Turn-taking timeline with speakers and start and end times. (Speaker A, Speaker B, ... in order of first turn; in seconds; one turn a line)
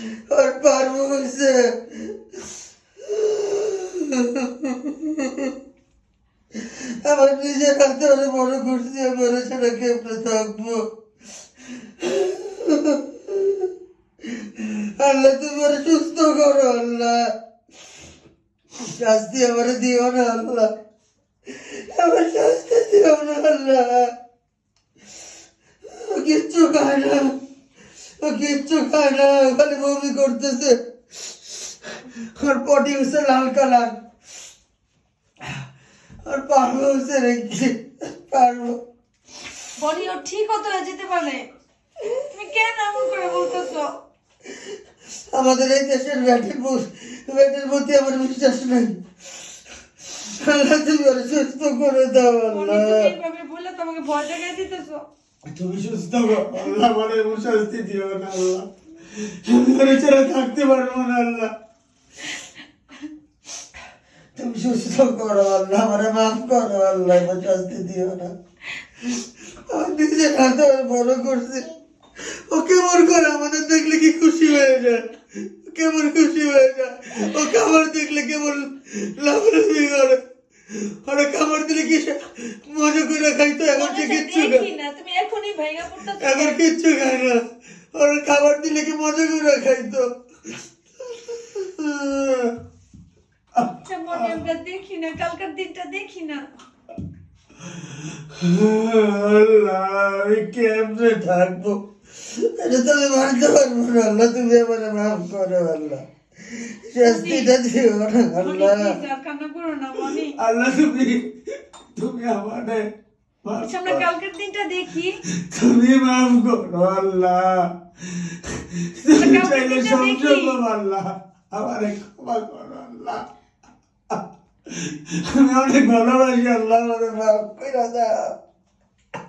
Speaker A: 0.3-2.1
Speaker A: 3.0-5.5
Speaker A: 6.6-10.8
Speaker A: 12.0-13.7
Speaker A: 14.4-17.3
Speaker A: 18.8-20.7
Speaker A: 21.5-24.1
Speaker A: 25.9-27.3
Speaker A: 28.2-30.8
Speaker A: 32.3-34.0
Speaker A: 36.2-38.8
Speaker B: 39.8-41.5
Speaker B: 42.1-43.9
Speaker A: 45.3-49.0
Speaker A: 50.2-53.1
Speaker B: 52.5-55.0
Speaker A: 55.5-58.7
Speaker A: 59.2-61.5
Speaker A: 64.3-68.3
Speaker A: 69.1-71.7
Speaker A: 72.3-75.1
Speaker A: 75.6-80.2
Speaker A: 80.7-84.7
Speaker B: 83.7-86.6
Speaker A: 86.2-90.1
Speaker A: 91.0-92.5
Speaker A: 93.5-94.4
Speaker B: 93.8-96.4
Speaker A: 98.3-109.0
Speaker B: 107.0-107.5
Speaker B: 108.4-110.3
Speaker A: 110.3-111.3
Speaker A: 111.9-112.8
Speaker A: 113.4-114.0
Speaker B: 113.6-115.2
Speaker A: 115.5-117.6
Speaker A: 118.1-123.2
Speaker B: 119.2-120.6
Speaker A: 124.7-128.3